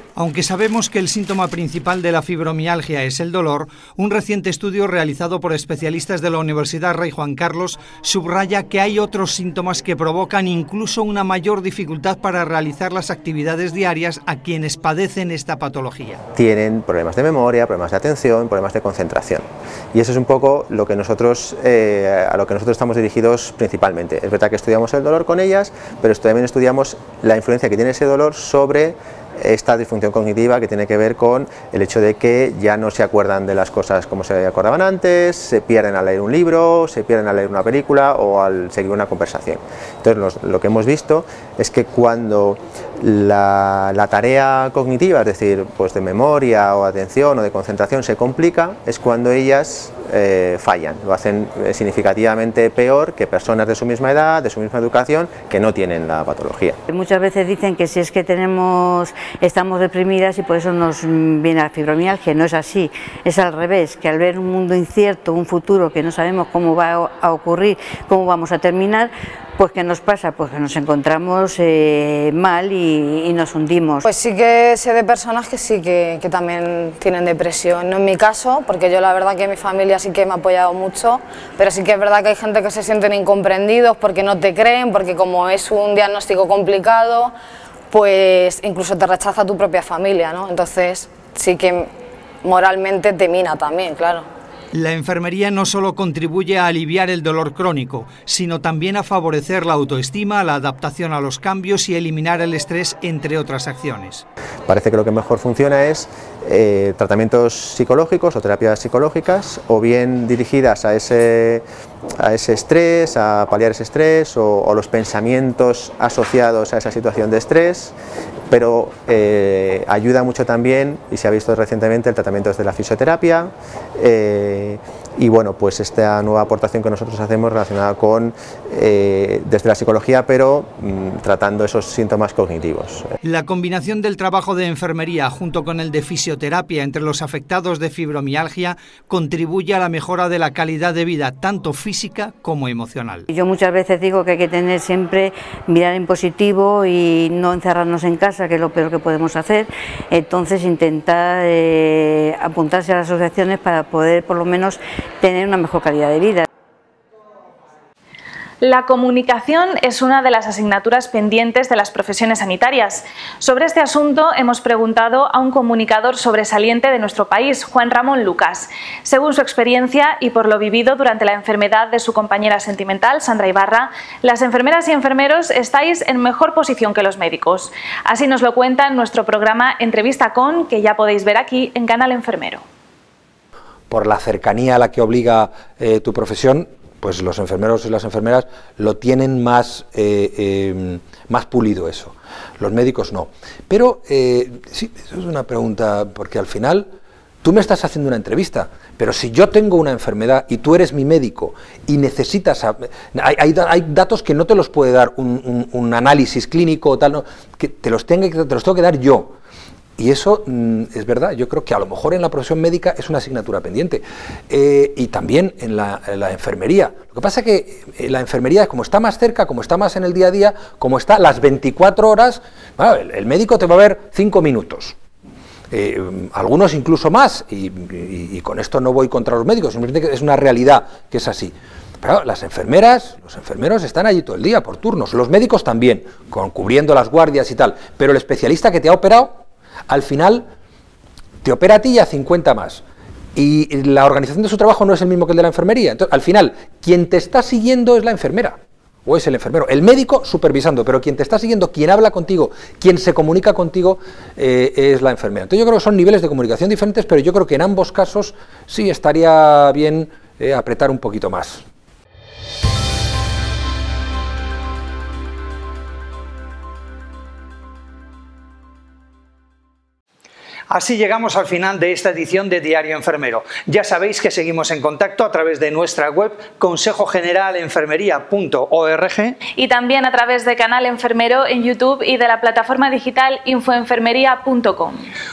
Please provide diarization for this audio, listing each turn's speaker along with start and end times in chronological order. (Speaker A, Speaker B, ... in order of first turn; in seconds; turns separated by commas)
Speaker A: 0.2-16.2, Speaker B: 16.4-56.8, Speaker C: 56.9-74.0, Speaker D: 74.0-87.3, Speaker D: 87.9-91.9, Speaker D: 92.4-94.3, Speaker A: 94.8-104.2, Speaker B: 104.7-111.7, Speaker B: 112.2-118.0, Speaker B: 118.5-133.1, Speaker A: 133.2-143.2, Speaker C: 143.3-156.5, Speaker E: 158.6-182.6, Speaker F: 183.9-196.9, Speaker F: 197.4-209.3, Speaker F: 210.0-225.0, Speaker F: 225.7-240.5, Speaker F: 241.4-242.8, Speaker F: 243.4-261.7, Speaker A: 270.7-279.4, Speaker E: 279.5-285.1